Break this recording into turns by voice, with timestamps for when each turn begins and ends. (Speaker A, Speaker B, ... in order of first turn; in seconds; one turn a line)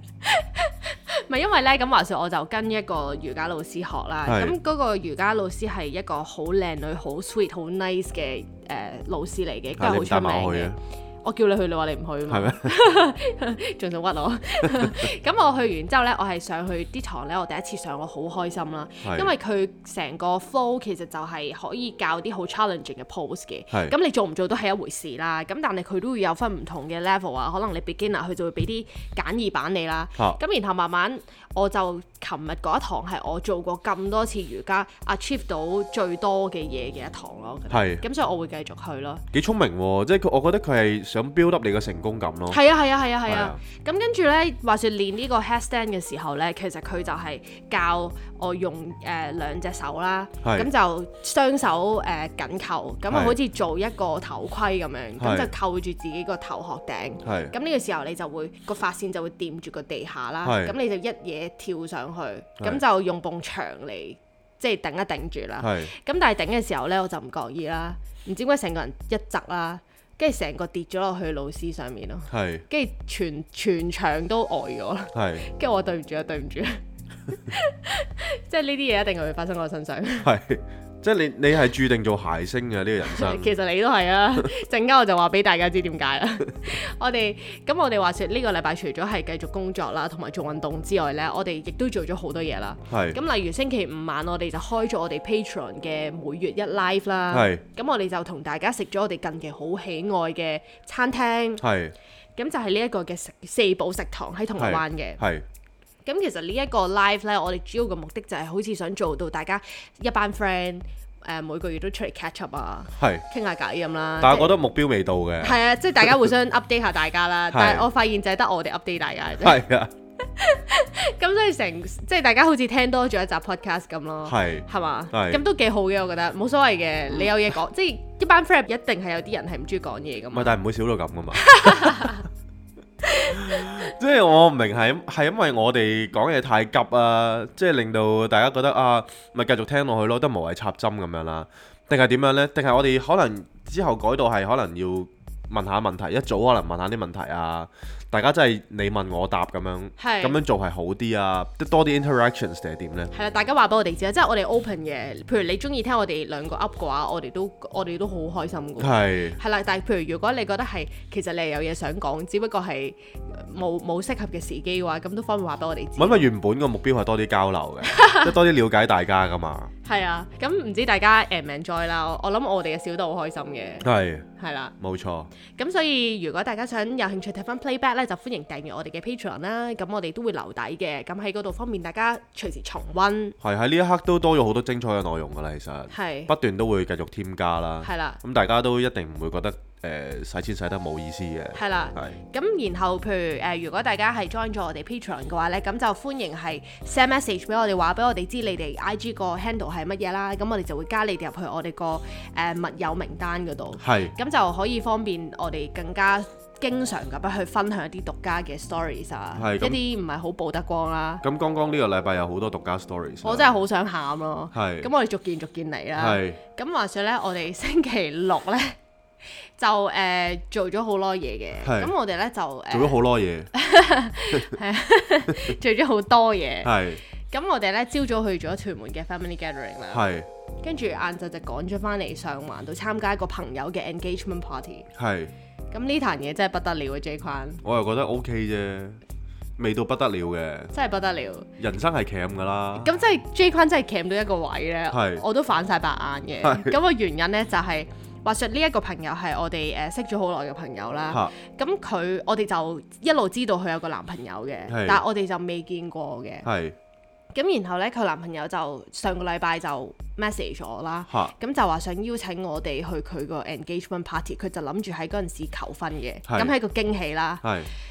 Speaker A: 0.2-39.2
Speaker B: 4.3-4.6
Speaker B: 9.8-10.8
Speaker B: 12.3-12.7
Speaker B: 19.0-19.3
Speaker B: 37.7-38.0
Speaker B: 39.3-42.6
Speaker A: 42.5-80.3
Speaker B: 43.3-43.6
Speaker B: 50.4-50.7
Speaker B: 53.1-53.4
Speaker B: 55.2-55.5
Speaker B: 57.2-57.5
Speaker B: 60.4-60.8
Speaker B: 65.6-65.9
Speaker B: 72.3-72.7
Speaker B: 75.1-75.5
Speaker B: 80.2-83.5
Speaker A: 83.0-101.6
Speaker B: 92.9-93.2
Speaker B: 97.3-97.6
Speaker B: 101.6-101.9
Speaker A: 102.4-105.2
Speaker B: 104.6-105.5
Speaker A: 106.0-114.6
Speaker B: 113.0-113.2
Speaker B: 114.2-116.2
Speaker A: 115.4-119.6
Speaker B: 117.5-117.9
Speaker B: 119.4-119.9
Speaker A: 120.2-130.6
Speaker B: 124.3-125.4
Speaker B: 130.3-132.2
Speaker A: 131.4-132.2
Speaker A: 133.0-133.8
Speaker B: 133.2-153.1
Speaker A: 150.0-150.4
Speaker A: 153.1-166.3
Speaker B: 158.8-159.4
Speaker B: 166.0-169.7
Speaker A: 167.8-168.3
Speaker A: 169.8-173.9
Speaker B: 173.8-174.3
Speaker A: 174.4-174.7
Speaker B: 174.8-175.3
Speaker A: 175.5-183.4
Speaker B: 183.4-192.2
Speaker A: 185.9-186.3
Speaker A: 187.8-188.2
Speaker A: 191.5-211.2
Speaker B: 203.8-204.1
Speaker B: 209.4-209.8
Speaker B: 211.2-213.6
Speaker A: 213.2-218.8
Speaker B: 214.5-214.9
Speaker B: 216.0-216.4
Speaker A: 219.4-223.0
Speaker B: 221.6-221.9
Speaker B: 222.7-223.5
Speaker A: 223.5-226.7
Speaker B: 226.6-227.0
Speaker A: 227.3-230.0
Speaker B: 229.9-230.3
Speaker A: 230.6-234.9
Speaker B: 235.0-235.3
Speaker A: 235.7-237.6
Speaker B: 237.6-239.0
Speaker B: 239.6-240.7
Speaker A: 240.7-241.5
Speaker B: 241.6-242.9
Speaker A: 242.8-256.5
Speaker B: 244.9-245.2
Speaker B: 246.4-246.7
Speaker B: 254.7-255.0
Speaker B: 256.4-256.8
Speaker A: 257.3-267.4
Speaker B: 266.3-266.6
Speaker B: 267.4-267.7